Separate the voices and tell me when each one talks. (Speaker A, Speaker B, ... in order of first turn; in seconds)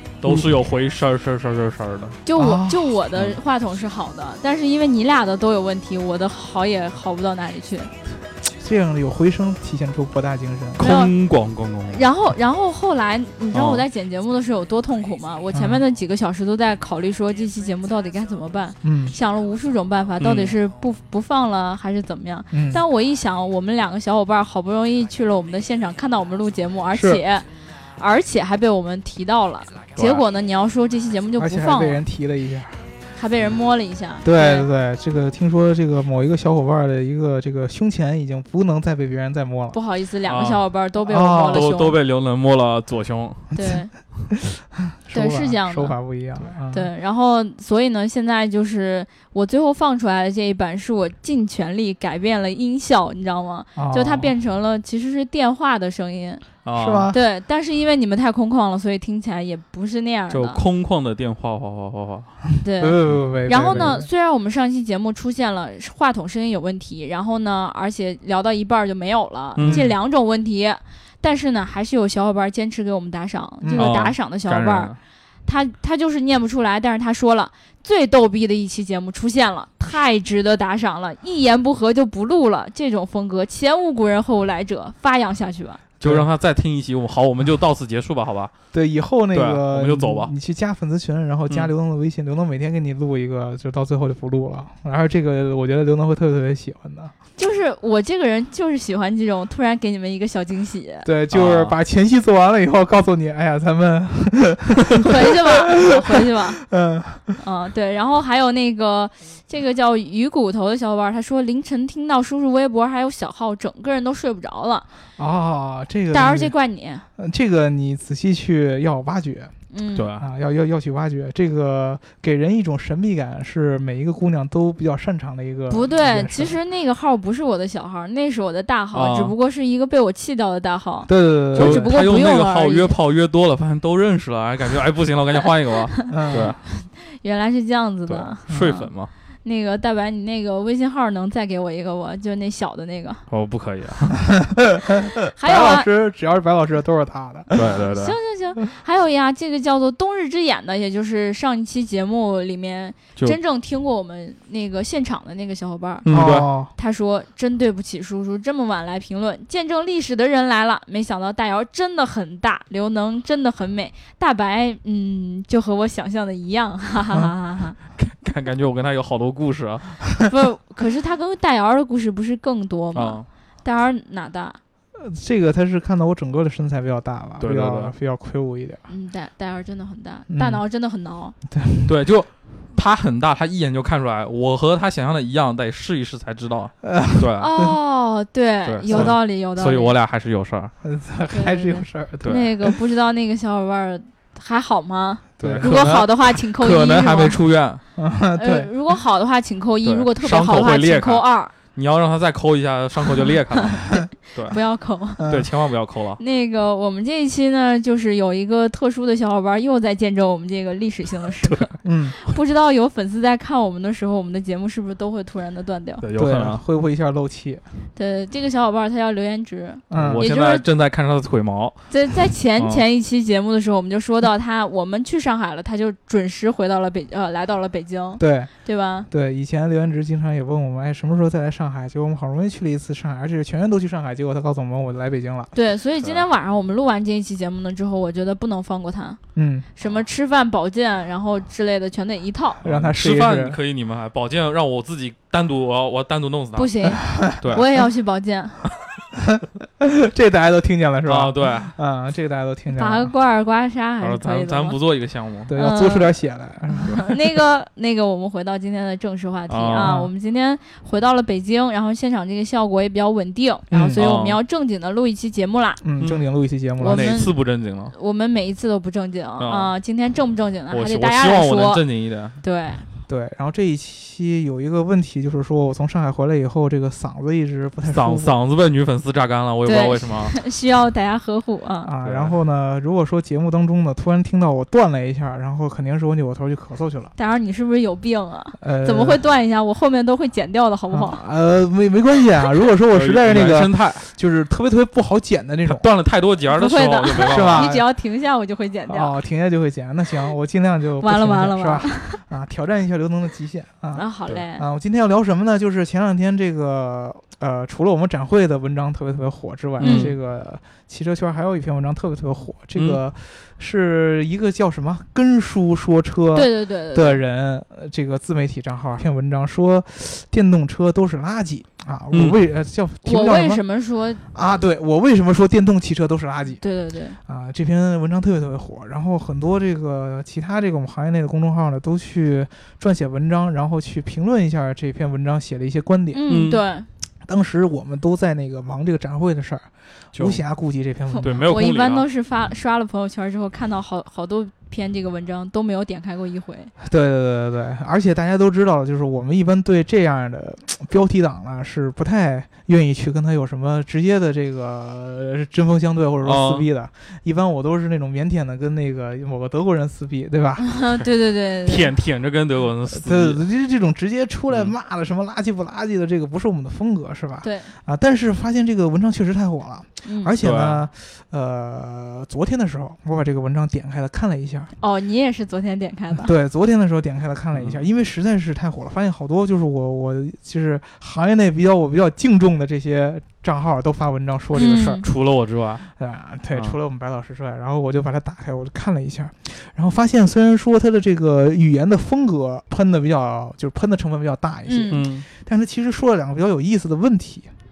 Speaker A: 0.2-2.2, 10.8-12.1, 13.5-13.9, 20.2-20.6, 30.0-30.2, 40.2-40.7, 41.5-43.5, 56.6-57.1, 60.3-62.4, 63.6-63.9, 69.6-69.9, 73.8-75.0, 86.0-88.5, 89.3-90.3, 101.3-101.8, 120.0-120.3, 128.9-129.3, 131.6-136.6, 138.1-139.1, 143.3-144.2, 147.5-148.2, 156.1-156.5, 168.0-170.1, 172.9-173.3, 177.4-177.9, 181.9-187.5, 188.7-190.7, 195.4-197.8, 199.8-204.6, 205.2-206.2, 211.4-211.7, 216.0-216.6, 219.9-221.8, 222.6-222.8, 242.7-246.8, 247.4-247.7, 251.1-251.7, 254.0-255.5, 259.5-260.0, 263.9-264.4, 266.0-266.3, 266.8-267.9, 269.4-269.7, 270.7-272.4, 277.9-280.4, 282.0-282.3, 292.9-294.1, 295.7-297.8, 309.8-310.1, 322.1-322.4, 336.3-336.6, 340.1-340.4, 341.2-342.1, 356.2-356.7, 361.6-363.4, 370.4-370.9, 377.5-377.8, 384.7-385.9, 394.9-395.3
Speaker B: 0.2-0.5, 2.4-3.0, 8.6-10.9, 15.5-15.8, 18.8-19.2, 22.5-22.8, 26.9-27.2, 31.4-32.8, 34.2-39.8, 41.1-41.7, 44.3-46.9, 53.8-54.3, 56.8-57.2, 62.8-64.1, 69.6-70.0, 73.6-74.0, 86.0-86.3, 88.7-97.1, 101.0-107.4, 115.2-116.5, 117.2-119.5, 120.2-126.6, 131.1-131.9, 136.1-136.6, 144.2-147.9, 156.1-156.7, 175.0-178.8, 180.3-180.6, 181.5-182.0, 186.8-187.7, 188.9-189.2, 190.8-192.8, 195.4-196.1, 198.0-198.7, 205.2-205.5, 211.8-212.2, 216.1-217.6, 219.9-220.3, 228.2-228.5, 229.1-235.5, 239.3-239.7, 242.6-243.6, 247.2-247.6, 249.2-253.1, 255.5-257.2, 259.7-260.1, 263.7-264.1, 265.8-267.2, 273.1-278.4, 281.8-287.1, 288.6-289.2, 290.9-295.9, 297.3-297.8, 298.9-304.1, 304.6-323.6, 324.3-326.6, 327.3-336.3, 337.3-341.6, 346.8-360.8, 362.9-374.7, 376.1-385.0, 386.0-397.5
Speaker C: 2.2-7.9, 10.8-11.1, 11.9-32.0, 33.1-34.7, 39.7-42.0, 43.5-43.9, 45.1-46.0, 46.7-56.5, 57.1-60.6, 62.6-74.9, 75.5-85.8, 97.4-101.1, 105.0-106.6, 107.4-114.9, 116.1-117.1, 119.7-120.1, 125.7-132.9, 136.7-138.9, 139.4-143.2, 145.3-145.9, 147.6-156.1, 156.7-167.8, 170.3-174.6, 178.9-181.3, 187.4-189.9, 191.3-197.4, 198.4-201.5, 204.5-205.2, 206.2-216.0, 218.0-220.7, 221.9-229.1, 235.5-239.2, 239.8-242.7, 246.6-248.6, 252.7-254.8, 255.5-256.1, 256.7-265.8, 266.8-267.4, 267.9-271.8, 272.4-272.9, 279.6-281.9, 287.2-291.2, 296.5-299.1, 301.0-302.2, 303.9-304.7, 309.8-310.1, 316.3-317.2, 323.1-324.2, 326.6-327.2, 336.1-336.9, 341.1-346.7, 360.6-361.9, 367.4-367.7, 370.1-370.3, 374.8-376.3, 384.5-385.0, 394.7-395.0